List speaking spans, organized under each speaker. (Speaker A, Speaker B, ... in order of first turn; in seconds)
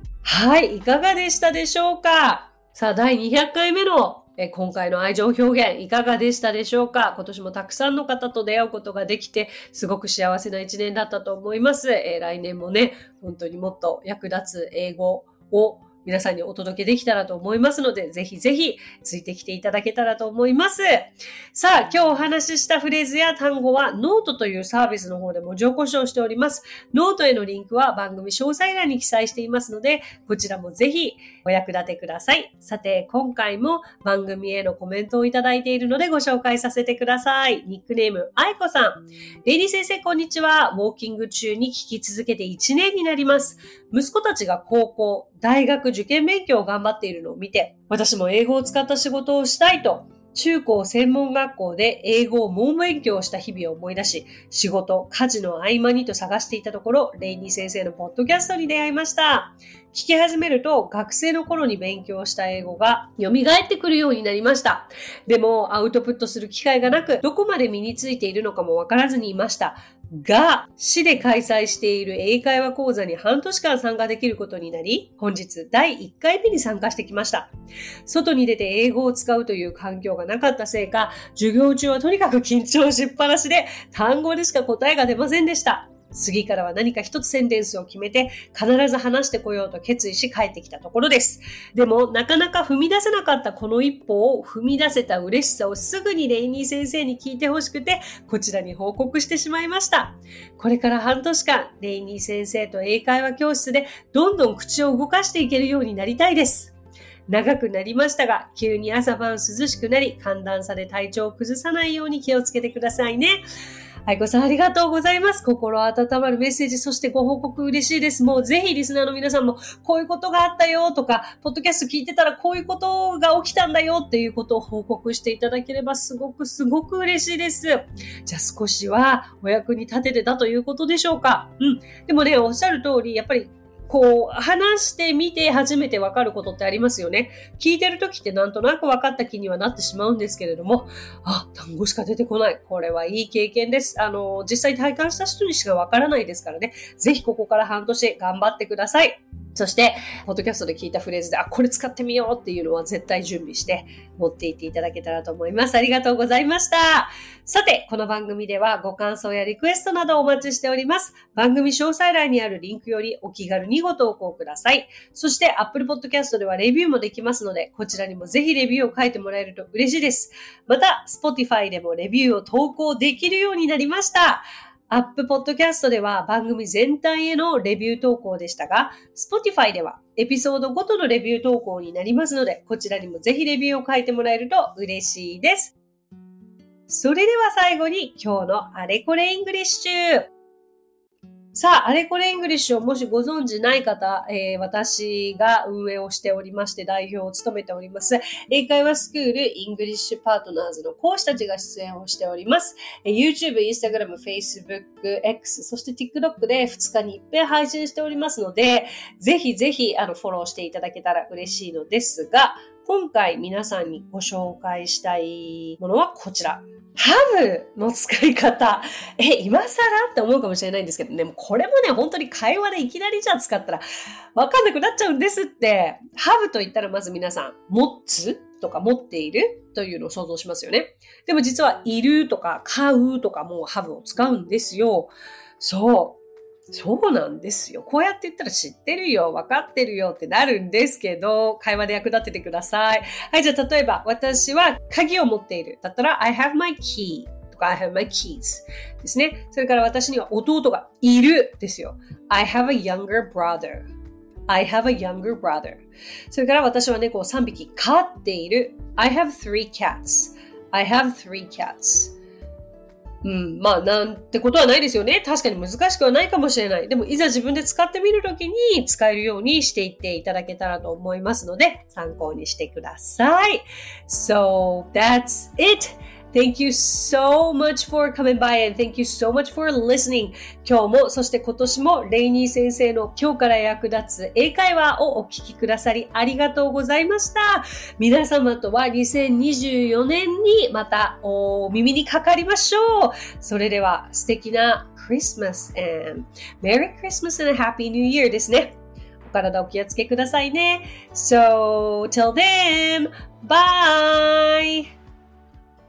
Speaker A: 0.2-77.5, 78.0-106.7, 107.3-113.4, 114.0-185.7, 186.9-190.3, 191.5-223.8, 224.3-236.2, 236.7-253.9, 254.5-262.1, 263.2-304.9